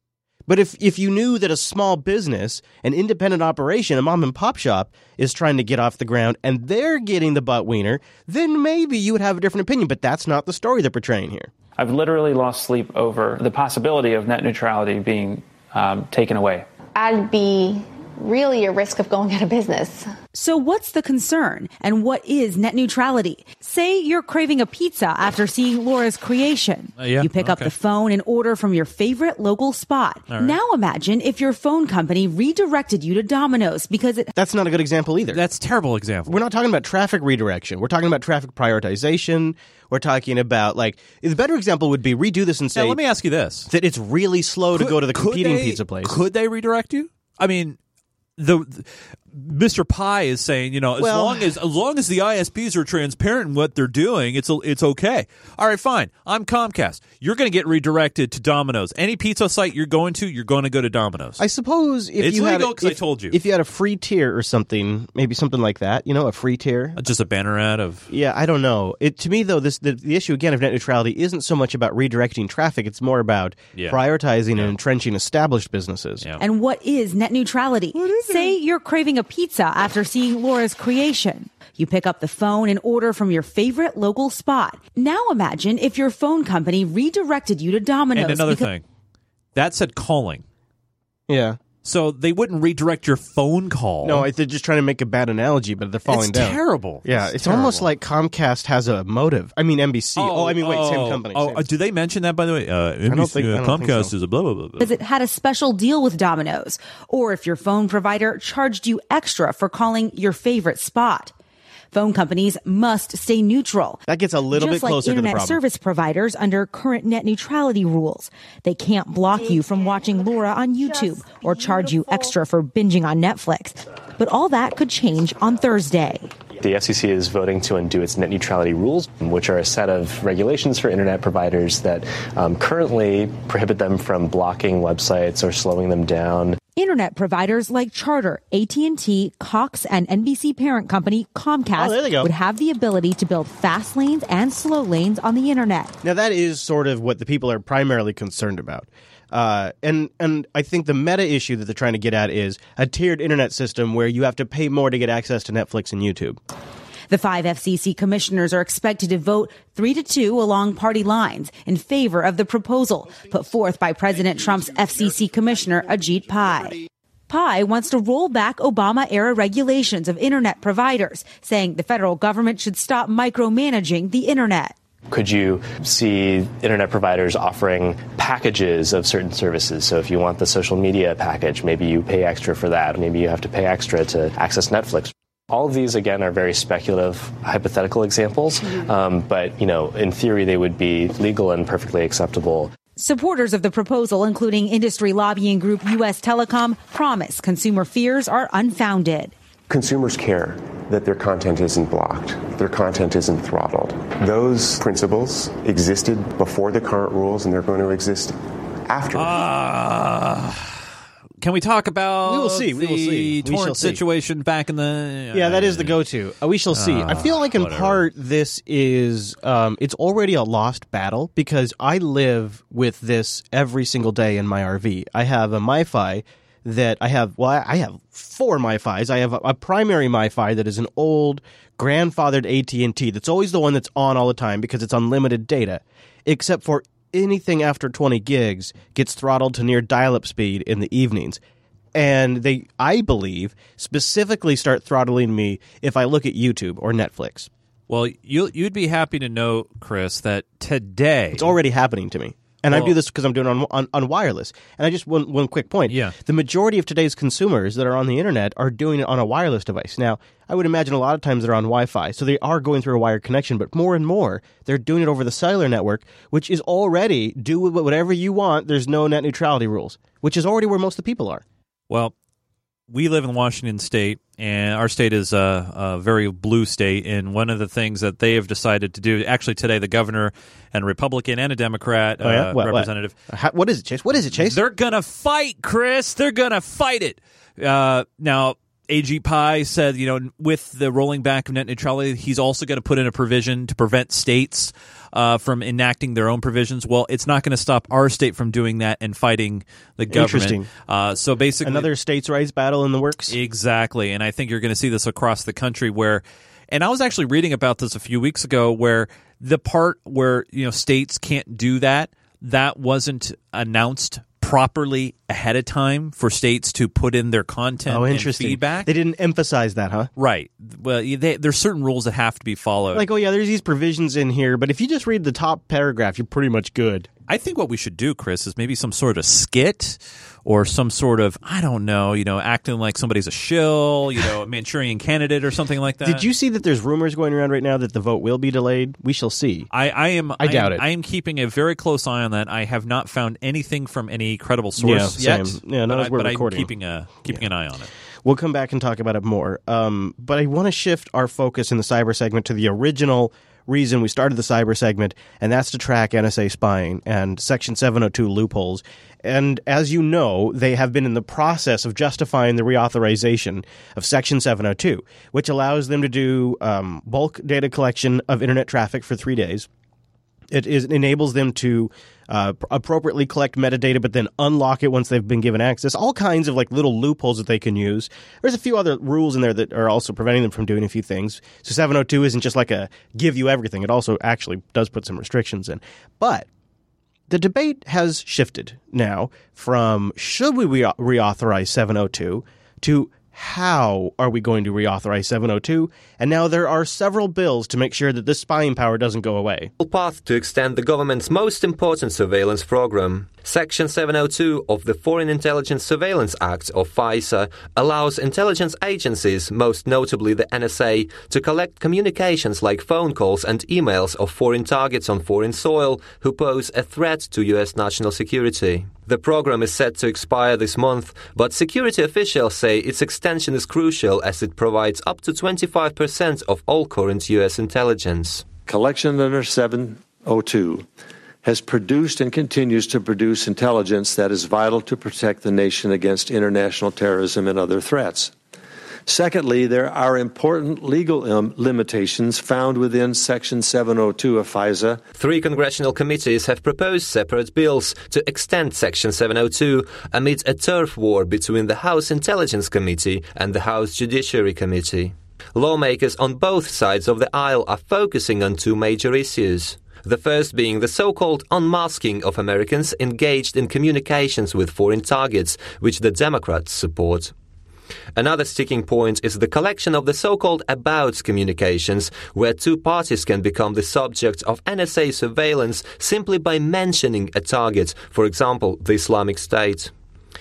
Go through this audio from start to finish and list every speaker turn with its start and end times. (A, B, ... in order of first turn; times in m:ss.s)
0:00.5-0:11.5 A
0:11.8-0:16.7 B
0:17.0-0:20.0 C
0:20.3-0:34.3 D
0:27.0-0:27.7 E
0:30.3-0:30.6 E
0:34.3-0:35.4 A
0:35.3-0:36.4 E
0:36.3-0:43.0 A
0:42.8-0:43.7 E
0:43.7-0:46.2 A
0:44.7-0:47.8 E
0:48.4-1:01.4 E
0:51.0-0:51.5 A
1:01.4-1:07.0 A
1:02.2-1:03.4 E
1:07.0-1:08.1 E
1:08.1-1:16.2 A
1:13.8-1:14.0 E
1:16.4-1:28.7 D
1:28.2-1:28.8 E
1:29.6-1:30.4 E
1:31.3-1:31.6 A
1:31.8-1:34.3 E
1:34.0-1:41.7 A
1:36.1-1:37.9 E
1:40.2-1:44.8 E
1:43.1-1:44.1 A
1:44.8-1:51.3 D
1:51.9-1:54.0 D
1:54.1-1:55.6 A
1:54.5-2:06.3 D
2:06.5-2:16.6 F
2:16.8-2:26.0 D
2:21.8-2:22.3 A
2:26.0-2:36.4 A
2:37.1-2:46.8 D
2:47.3-2:54.8 D
2:55.1-3:12.7 F
3:13.0-3:19.3 D
3:19.7-3:29.4 G
3:29.1-3:30.8 E
3:31.4-3:36.0 E
3:32.3-3:34.0 A
3:35.3-4:01.4 A
3:36.7-3:38.0 E
4:02.0-4:07.5 A
4:07.9-4:11.5 E
4:11.3-4:31.4 A
4:12.7-4:13.0 E
4:15.9-4:16.2 E
4:31.9-4:32.1 E
4:32.9-4:43.2 E
4:42.2-4:44.6 A
4:44.2-5:01.9 E
5:00.1-5:00.7 A
5:01.6-5:03.4 A
5:03.3-5:18.9 E
5:17.9-5:20.1 A
5:20.2-5:23.0 E
5:22.9-5:27.1 A
5:27.3-5:36.2 E
5:36.0-5:39.7 A
5:39.7-5:47.9 E
5:40.4-5:40.8 A
5:44.8-5:46.7 A
5:48.2-6:09.7 A
6:10.5-6:26.5 A
6:27.3-6:39.7 A
6:39.8-7:08.5 H
7:08.7-7:10.8 I
7:11.4-7:18.3 I
7:19.1-7:25.0 I
7:25.2-7:47.3 H
7:48.2-7:59.9 H